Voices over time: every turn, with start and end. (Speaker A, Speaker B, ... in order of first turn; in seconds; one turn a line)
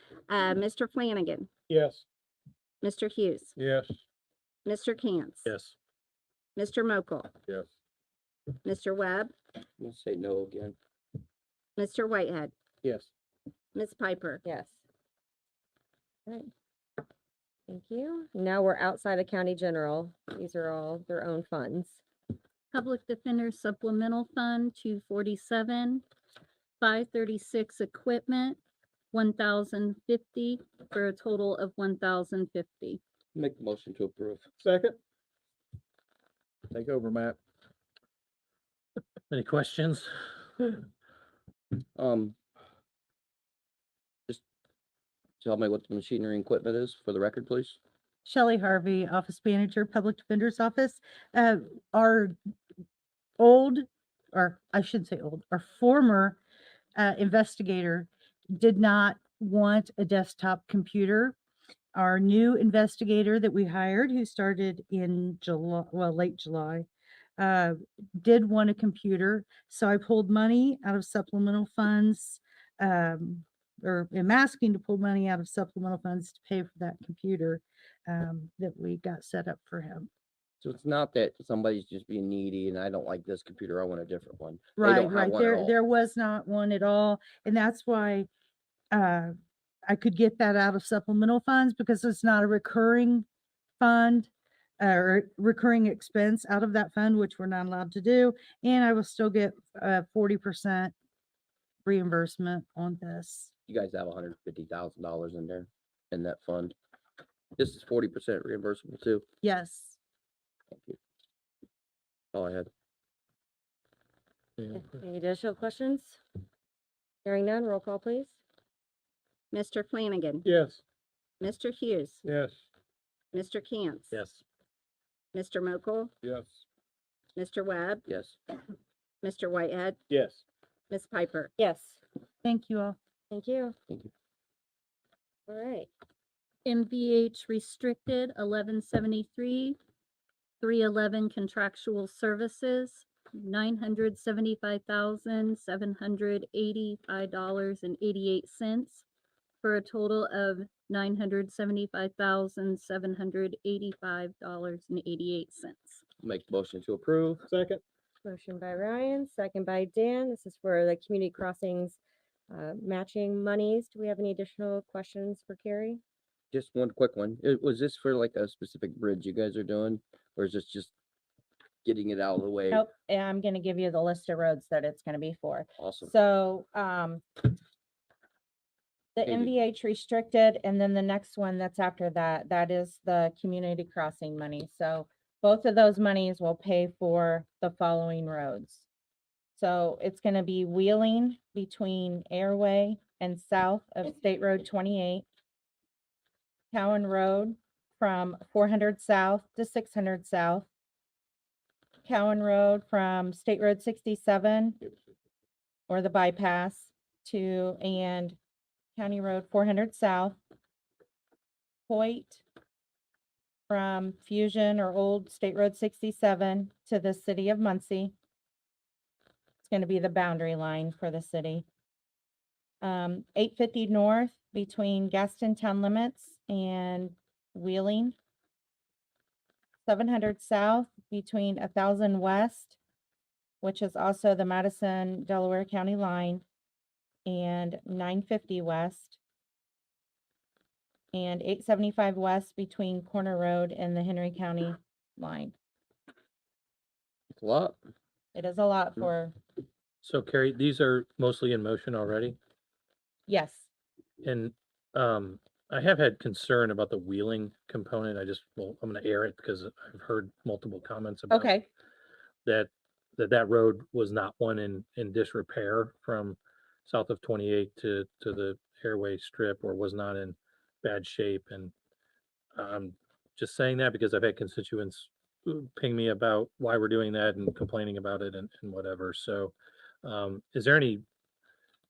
Speaker A: 0.3-1.5
Speaker B: 1.7-2.0
Speaker A: 2.8-3.5
Speaker B: 3.6-3.9
Speaker A: 4.7-5.5
Speaker C: 5.4-5.7
Speaker A: 6.5-7.3
Speaker A: 8.6-9.3
Speaker D: 9.8-10.8
Speaker A: 11.8-12.5
Speaker A: 13.7-14.4
Speaker E: 14.4-14.8
Speaker E: 17.7-22.0
Speaker F: 22.7-26.0
Speaker F: 26.8-28.6
Speaker F: 29.1-33.0
Speaker D: 33.3-34.4
Speaker B: 34.6-34.9
Speaker B: 36.8-37.3
Speaker C: 39.3-40.8
Speaker D: 42.0-42.3
Speaker D: 45.4-47.8
Speaker G: 48.2-52.4
Speaker G: 53.4-56.4
Speaker G: 57.0-61.4
Speaker G: 61.9-66.8
Speaker G: 67.4-80.1
Speaker D: 80.6-85.7
Speaker G: 84.8-88.3
Speaker G: 88.9-89.3
Speaker G: 89.8-93.2
Speaker G: 93.8-94.3
Speaker G: 94.8-100.9
Speaker G: 101.8-103.5
Speaker D: 103.7-106.7
Speaker D: 107.6-109.2
Speaker G: 109.4-110.0
Speaker D: 110.7-111.0
Speaker D: 112.3-112.7
Speaker E: 114.7-116.2
Speaker E: 117.2-118.4
Speaker A: 119.5-120.4
Speaker B: 120.4-120.8
Speaker A: 121.4-122.2
Speaker A: 123.3-124.2
Speaker C: 124.1-124.4
Speaker A: 125.3-126.1
Speaker A: 127.3-128.0
Speaker D: 128.1-128.3
Speaker A: 129.2-129.9
Speaker A: 130.9-131.5
Speaker E: 131.6-132.0
Speaker G: 132.4-133.0
Speaker E: 133.3-133.8
Speaker E: 135.5-135.9
Speaker F: 136.6-139.8
Speaker F: 140.6-149.0
Speaker F: 149.6-156.0
Speaker D: 156.2-157.4
Speaker E: 158.2-162.0
Speaker E: 162.5-166.0
Speaker D: 166.5-170.9
Speaker D: 171.8-172.8
Speaker H: 172.7-177.4
Speaker D: 175.8-176.1
Speaker H: 179.1-188.9
Speaker D: 179.2-179.5
Speaker H: 189.6-195.2
Speaker H: 196.7-200.7
Speaker H: 202.0-204.8
Speaker H: 205.9-208.4
Speaker H: 208.9-210.4
Speaker H: 211.9-212.4
Speaker H: 213.7-218.1
Speaker H: 219.6-221.7
Speaker H: 222.8-228.1
Speaker H: 229.8-232.8
Speaker H: 233.6-236.4
Speaker H: 237.2-239.2
Speaker H: 241.1-245.5
Speaker D: 247.3-247.8
Speaker H: 248.3-249.3
Speaker C: 250.0-252.4
Speaker H: 253.3-253.7
Speaker C: 254.2-261.5
Speaker H: 261.3-261.7
Speaker C: 262.4-271.7
Speaker C: 272.5-279.5
Speaker C: 280.0-281.0